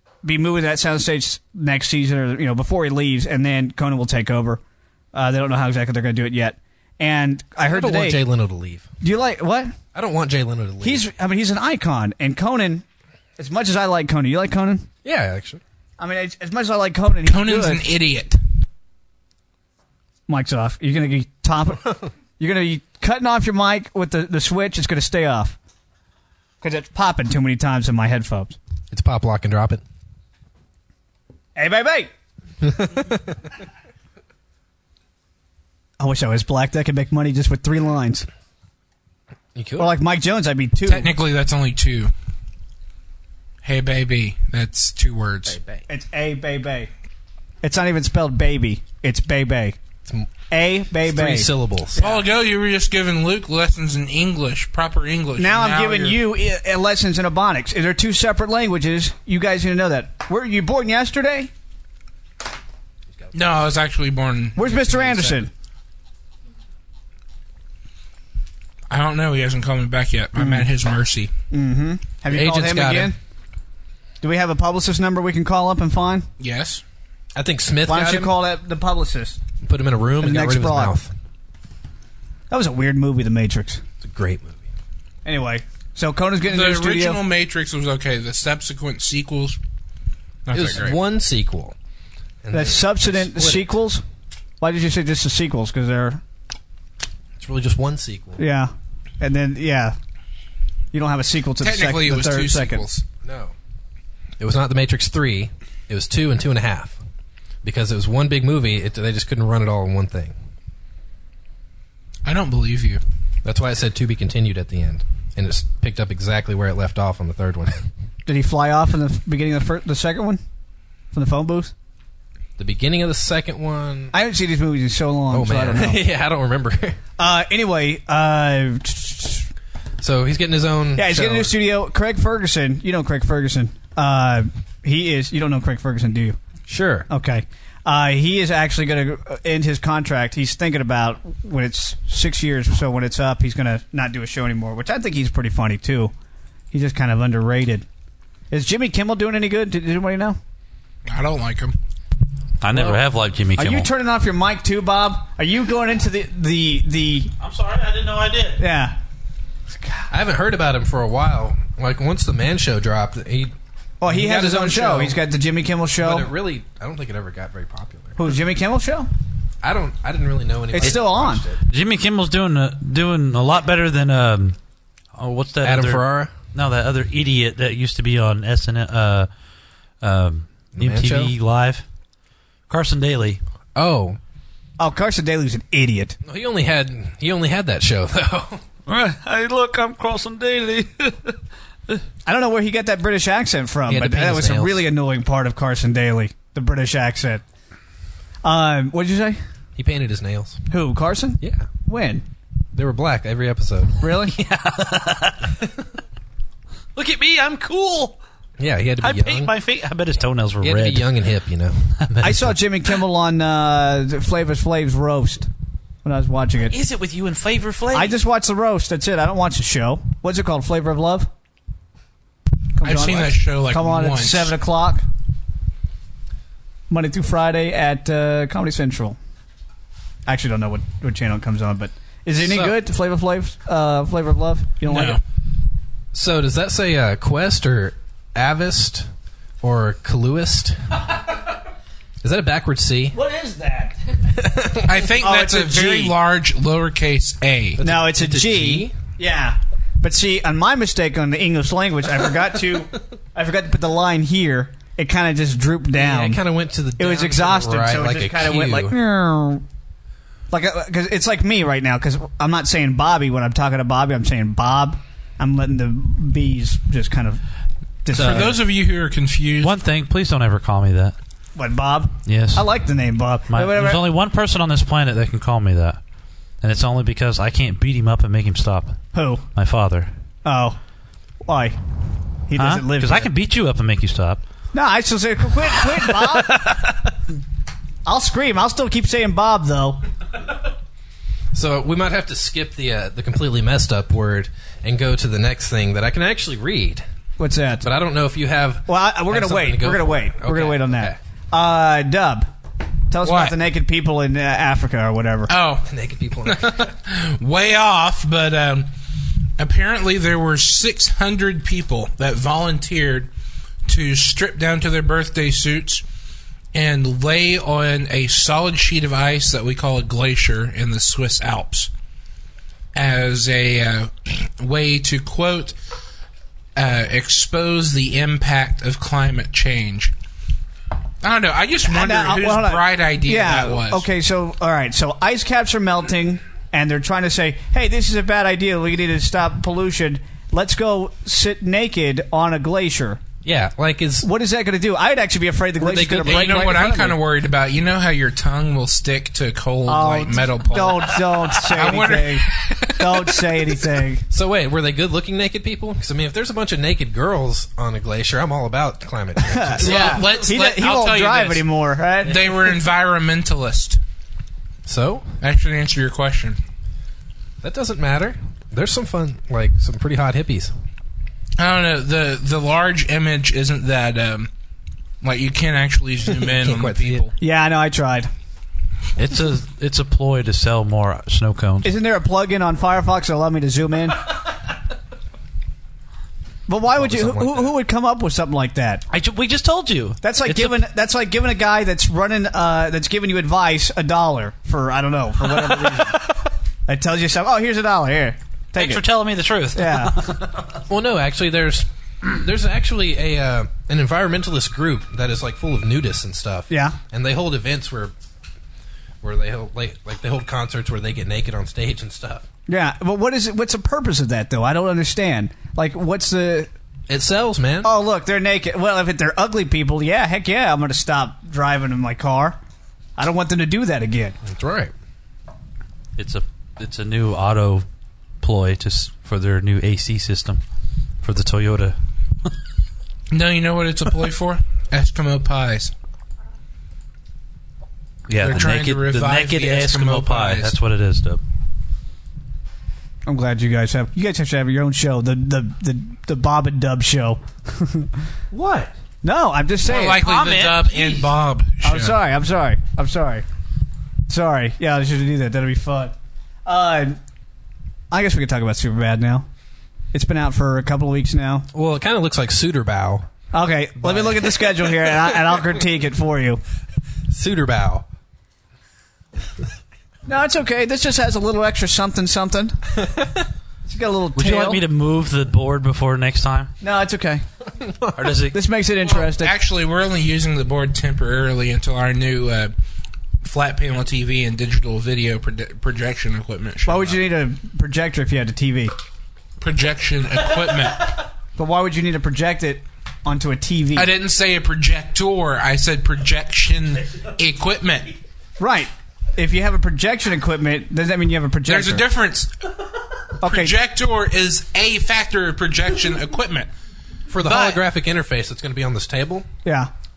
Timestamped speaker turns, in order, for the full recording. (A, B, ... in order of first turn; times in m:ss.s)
0:00.2-0:04.6 A
0:05.1-0:08.2 A
0:07.6-0:08.9 B
0:09.0-0:09.8 A
0:09.9-0:11.1 B
0:10.8-0:12.8 A
0:13.4-0:14.9 A
0:15.0-0:15.6 B
0:16.0-0:17.9 A
0:17.2-0:18.4 C
0:20.3-0:25.6 A
0:26.6-0:28.6 A
0:28.9-0:29.8 B
0:31.6-0:32.1 A
0:32.7-0:33.2 B
0:36.0-0:38.3 A
0:39.6-0:40.0 B
0:39.8-0:41.1 A
0:40.9-0:42.1 C
0:43.6-0:45.8 C
0:45.9-0:46.9 A
0:47.6-0:49.8 A
0:50.5-0:52.2 A
0:51.0-0:52.0 B
0:52.0-0:56.2 C
0:55.4-1:01.5 A
1:03.3-1:05.4 C
1:04.6-1:05.5 A
1:08.9-1:11.3 C
1:10.4-1:10.7 A
1:11.5-1:13.2 A
1:12.3-1:13.1 B
1:14.2-1:16.3 A
1:16.4-1:16.8 C
1:17.4-1:18.3 B
1:17.9-1:19.4 A
1:19.6-1:21.1 B
1:20.2-1:21.0 A
1:22.5-1:23.8 A
1:24.0-1:24.6 B
1:25.2-1:27.2 A
1:26.4-1:29.6 C
1:30.5-1:31.0 C
1:30.5-1:31.8 B
1:32.4-1:33.7 B
1:32.5-1:34.0 A
1:34.6-1:36.2 A
1:37.4-1:38.4 B
1:38.4-1:40.0 A
1:40.9-1:42.9 A
1:41.6-1:43.0 C
1:43.2-1:43.5 B
1:44.4-1:47.0 B
1:47.6-1:50.3 B
1:52.2-1:53.0 C
1:53.4-1:57.9 B
1:58.3-2:00.4 A
2:01.1-2:01.7 A
2:02.6-2:04.2 B
2:04.1-2:06.0 A
2:05.3-2:07.0 B
2:07.2-2:09.5 A
2:10.0-2:11.5 B
2:11.0-2:16.4 A
2:16.7-2:17.1 B
2:17.1-2:26.1 A
2:26.7-2:27.8 A
2:28.5-2:30.4 A
2:31.1-2:31.8 C
2:32.6-2:33.9 D
2:32.7-2:33.0 A
2:33.6-2:37.3 A
2:37.4-2:38.6 D
2:38.6-2:39.0 A
2:40.1-2:43.5 B
2:44.0-2:46.3 A
2:44.1-2:45.2 B
2:46.0-2:48.2 B
2:48.2-2:49.1 A
2:49.6-2:51.6 B
2:50.7-2:51.4 A
2:51.7-2:54.6 D
2:55.1-2:59.3 D
2:55.6-2:56.3 B
3:00.0-3:01.8 D
3:00.7-3:01.3 B
3:02.7-3:03.4 D
3:03.8-3:04.2 B
3:04.8-3:06.2 A
3:06.2-3:08.6 B
3:08.9-3:11.2 D
3:12.2-3:17.4 A
3:13.9-3:14.9 B
3:18.4-3:19.4 A
3:19.8-3:20.6 B
3:20.7-3:22.3 A
3:21.4-3:21.7 B
3:22.7-3:24.0 B
3:24.0-3:24.4 A
3:24.2-3:25.6 D
3:27.0-3:28.2 D
3:28.6-3:29.5 B
3:29.0-3:31.1 D
3:30.6-3:31.8 B
3:32.0-3:32.6 D
3:32.2-3:35.5 A
3:36.0-3:36.8 A
3:36.7-3:38.2 D
3:37.9-3:41.3 A
3:42.8-3:45.1 A
3:42.8-3:44.5 C
3:46.9-3:49.2 A
3:50.3-3:55.2 A
3:52.4-3:52.8 B
3:54.8-3:55.2 C
3:56.1-3:59.1 B
3:59.6-4:01.0 B
4:02.2-4:03.2 B
4:03.1-4:04.1 A
4:04.4-4:05.1 B
4:04.8-4:07.8 C
4:05.2-4:06.2 A
4:07.8-4:09.0 B
4:07.8-4:16.4 A
4:15.9-4:19.0 B
4:17.0-4:19.6 A
4:20.5-4:27.4 A
4:28.0-4:28.6 A
4:28.1-4:28.5 D
4:28.2-4:29.8 C
4:29.6-4:31.2 D
4:31.6-4:34.1 A
4:32.2-4:32.7 D
4:33.5-4:36.0 D
4:36.6-4:39.0 D
4:39.1-4:39.4 A
4:39.5-4:40.1 D
4:40.4-4:40.8 A
4:41.5-4:41.8 A
4:42.5-4:43.3 A
4:42.6-4:44.4 D
4:44.7-4:46.6 A
4:46.4-4:47.0 D
4:48.0-4:50.0 A
4:51.5-4:57.0 B
4:57.4-4:57.9 A
4:57.8-5:01.2 B
4:58.9-5:02.5 A
5:03.1-5:05.5 A
5:03.2-5:03.6 C
5:05.5-5:05.9 C
5:05.9-5:06.9 B
5:06.4-5:08.9 C
5:09.6-5:13.3 C
5:13.9-5:16.0 C
5:16.7-5:21.9 C
5:22.9-5:25.8 C
5:26.8-5:30.1 C
5:31.2-5:34.1 C
5:31.8-5:43.2 A
5:43.4-5:44.3 B
5:44.2-5:47.2 A
5:45.8-5:46.8 B
5:46.2-5:53.6 C
5:49.9-5:52.5 A
5:53.0-5:54.3 A
5:54.3-6:00.3 B
5:59.4-6:02.8 A
5:59.8-6:01.7 C
6:02.2-6:04.0 C
6:04.9-6:05.3 B
6:05.4-6:06.6 C
6:07.6-6:10.7 B
6:11.6-6:14.5 C
6:15.2-6:17.3 C
6:16.3-6:17.3 B
6:17.4-6:18.3 A
6:19.2-6:21.9 D
6:21.8-6:24.3 A
6:26.7-6:29.1 A
6:26.9-6:27.7 B
6:29.1-6:30.8 D
6:30.2-6:36.2 A
6:36.9-6:39.0 A
6:38.8-6:40.8 D
6:39.8-6:40.1 A
6:40.9-6:48.1 B
6:46.7-6:47.0 A
6:49.2-6:52.5 B
6:52.7-6:56.7 A
6:57.1-6:57.9 B
6:57.8-7:02.6 A
7:03.2-7:04.4 A
7:04.4-7:04.9 B
7:06.2-7:07.9 D
7:08.4-7:10.6 D
7:11.2-7:12.0 D
7:13.3-7:15.9 C
7:18.3-7:21.4 D
7:18.4-7:20.8 C
7:23.3-7:28.2 A
7:28.5-7:28.9 B
7:29.2-7:30.2 A
7:29.9-7:32.2 C
7:30.2-7:31.3 D
7:31.8-7:33.4 A
7:34.3-7:36.1 A
7:36.6-7:37.2 A
7:38.1-7:39.5 A
7:40.1-7:41.7 A
7:41.7-7:43.3 B
7:43.5-7:46.6 A
7:44.1-7:44.4 B
7:47.3-7:48.0 B
7:50.3-7:52.8 A
7:53.8-7:54.8 A
7:54.4-7:56.7 D
7:56.8-7:57.4 A
7:58.1-7:58.6 D
7:58.5-7:59.6 A
7:59.0-8:02.8 C
8:03.4-8:07.2 C
8:06.9-8:08.9 A
8:09.6-8:11.2 C
8:11.6-8:14.1 A
8:13.9-8:18.2 C
8:18.6-8:22.1 A
8:21.7-8:22.5 C
8:23.4-8:23.8 A
8:23.4-8:26.7 C
8:27.3-8:29.5 B
8:27.4-8:27.8 C
8:29.6-8:29.9 A